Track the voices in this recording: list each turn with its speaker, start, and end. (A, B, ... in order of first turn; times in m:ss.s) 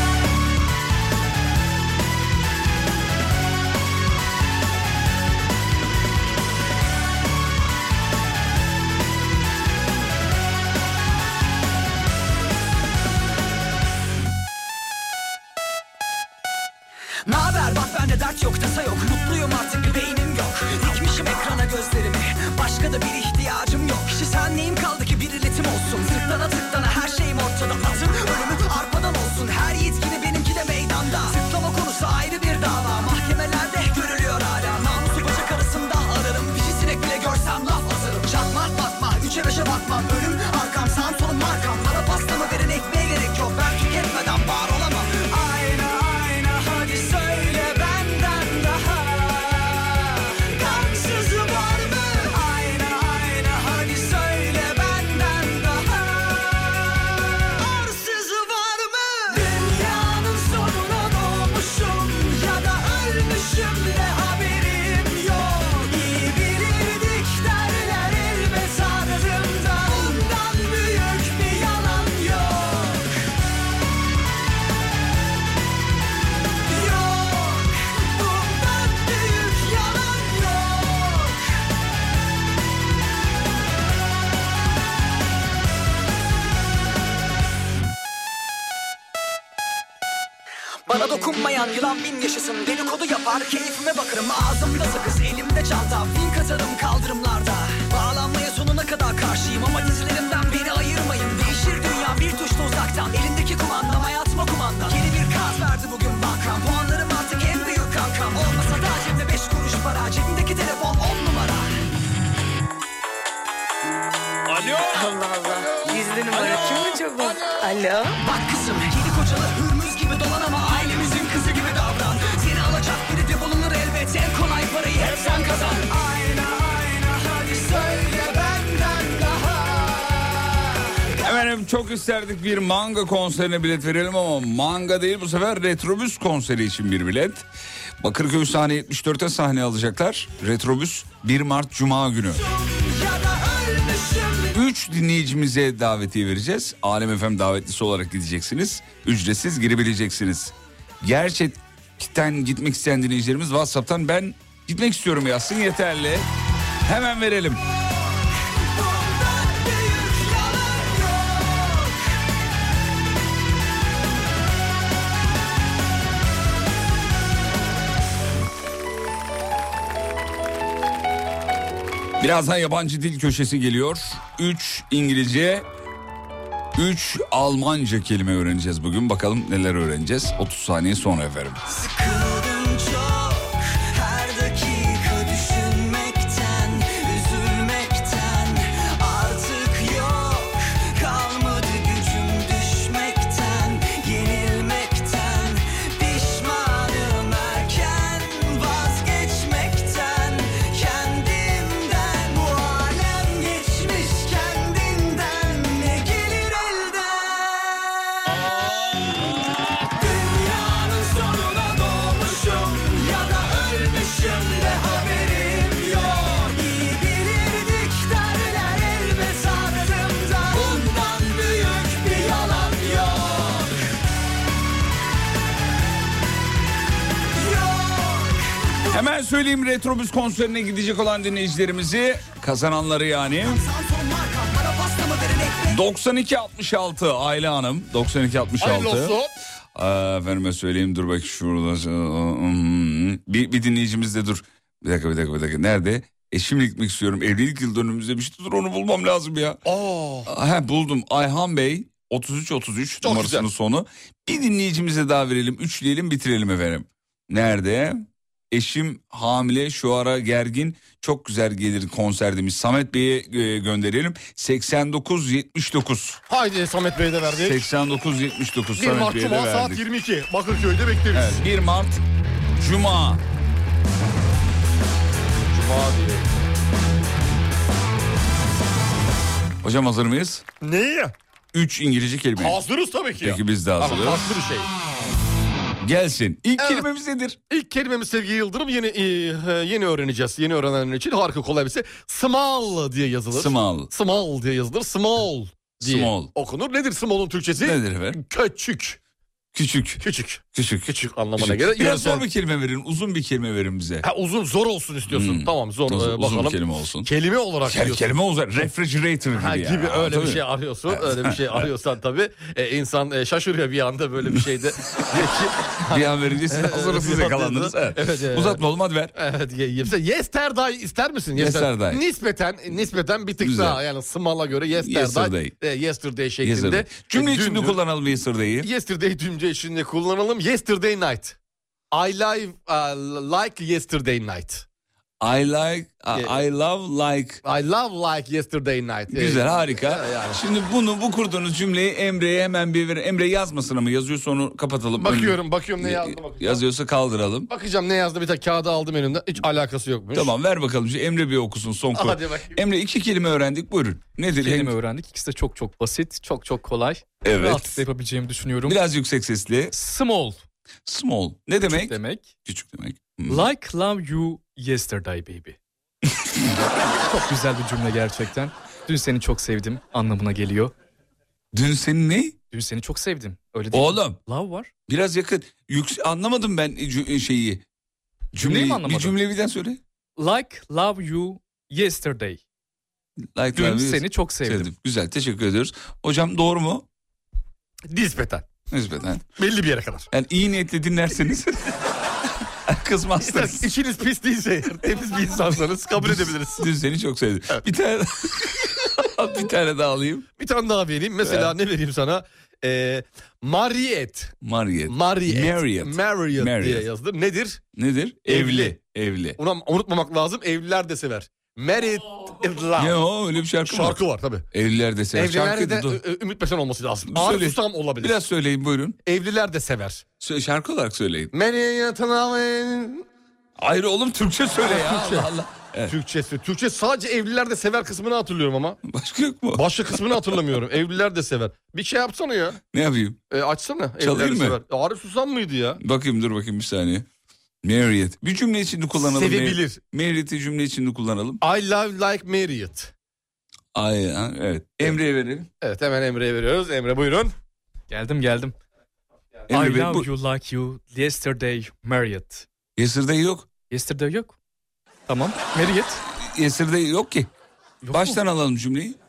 0:17.2-1:13.1 A
1:16.6-1:21.4 A
1:30.9-1:51.7 A
1:54.5-1:55.2 B
1:55.0-1:58.1 C
1:56.3-1:56.9 B
1:58.2-2:10.6 A
2:11.2-2:17.4 B
2:18.0-2:22.4 B
2:22.4-2:24.6 A
2:24.5-2:36.3 B
2:36.8-2:37.6 B
2:38.6-2:42.0 A
2:52.2-2:55.6 B
2:56.8-3:01.6 B
3:01.7-3:28.0 A
3:29.9-3:43.8 A
3:47.3-3:48.9 A
3:48.9-3:53.6 B
3:53.4-3:55.8 A
3:55.7-3:59.2 B
3:58.6-3:59.3 D
3:59.7-4:09.6 B
4:09.6-4:10.3 D
4:10.2-4:26.2 B
4:13.0-4:13.5 D
4:26.3-4:27.6 D
4:27.4-4:29.8 B
4:28.8-4:31.4 D
4:31.1-4:32.0 B
4:32.6-4:33.2 B
4:35.5-4:36.3 D
4:39.6-4:40.4 B
4:40.6-4:41.1 D
4:41.5-4:42.6 B
4:42.4-4:44.7 D
4:43.2-4:44.3 B
4:45.8-4:47.4 B
4:46.6-4:46.9 D
4:47.5-4:59.0 D
4:53.3-4:53.9 B
4:55.8-4:56.3 B
4:57.6-4:58.2 B
4:59.5-5:00.0 B
5:00.0-5:02.2 D
5:00.5-5:04.0 B
5:04.0-5:08.1 D
5:05.1-5:07.1 B
5:07.6-5:11.7 B
5:09.3-5:18.6 D
5:15.9-5:19.1 B
5:19.2-5:27.8 D
5:21.3-5:22.0 B
5:23.4-5:23.8 B
5:24.8-5:25.6 B
5:26.4-5:28.7 B
5:28.6-5:31.4 D
5:31.9-5:34.6 D
5:35.2-5:37.4 B
5:37.4-5:40.4 D
5:39.1-5:47.5 B
5:45.0-5:46.6 D
5:47.5-5:50.3 D
5:50.1-5:54.7 B
5:51.9-5:52.6 D
5:54.2-5:58.8 E
5:57.2-5:57.8 B
5:58.6-5:59.7 B
5:59.7-6:00.4 E
6:00.8-6:03.5 B
6:01.6-6:02.3 E
6:03.3-6:05.6 E
6:07.0-6:10.7 E
6:11.5-6:12.4 B
6:12.5-6:14.7 E
6:13.7-6:14.2 B
6:14.9-6:17.6 B
6:18.3-6:19.8 B
6:18.4-6:19.2 E
6:20.2-6:22.4 E
6:23.3-6:26.8 B
6:23.5-6:24.7 E
6:27.9-6:28.5 D
6:28.7-6:29.2 B
6:29.4-6:30.1 D
6:30.1-6:31.7 B
6:32.7-6:33.7 B
6:33.2-6:36.7 D
6:36.0-6:40.2 B
6:40.4-6:44.3 D
6:41.2-6:41.5 B
6:44.4-6:46.9 B
6:44.9-6:47.6 D
6:47.7-6:49.4 B
6:48.3-6:48.8 D
6:49.4-6:53.0 D
6:52.8-6:56.0 B
6:53.6-6:54.5 D
6:55.1-6:58.2 D
6:57.1-6:59.0 B
6:59.0-7:00.0 D
7:00.2-7:01.3 B
7:01.3-7:03.0 D
7:03.6-7:05.9 B
7:04.6-7:05.3 D
7:05.9-7:08.8 D
7:08.8-7:09.7 B
7:09.5-7:12.6 D
7:12.7-7:13.2 B
7:13.3-7:15.8 D
7:14.0-7:14.6 B
7:15.8-7:17.0 B
7:17.6-7:21.4 B
7:19.0-7:19.8 D
7:21.4-7:22.9 D
7:23.7-7:25.5 B
7:25.6-7:27.3 D
7:27.9-7:28.5 E
7:29.5-7:30.1 B
7:29.5-7:32.5 E
7:32.8-7:33.5 B
7:33.7-7:34.3 E
7:35.1-7:36.0 E
7:36.1-7:37.3 B
7:37.8-7:38.2 E
7:37.9-7:39.0 B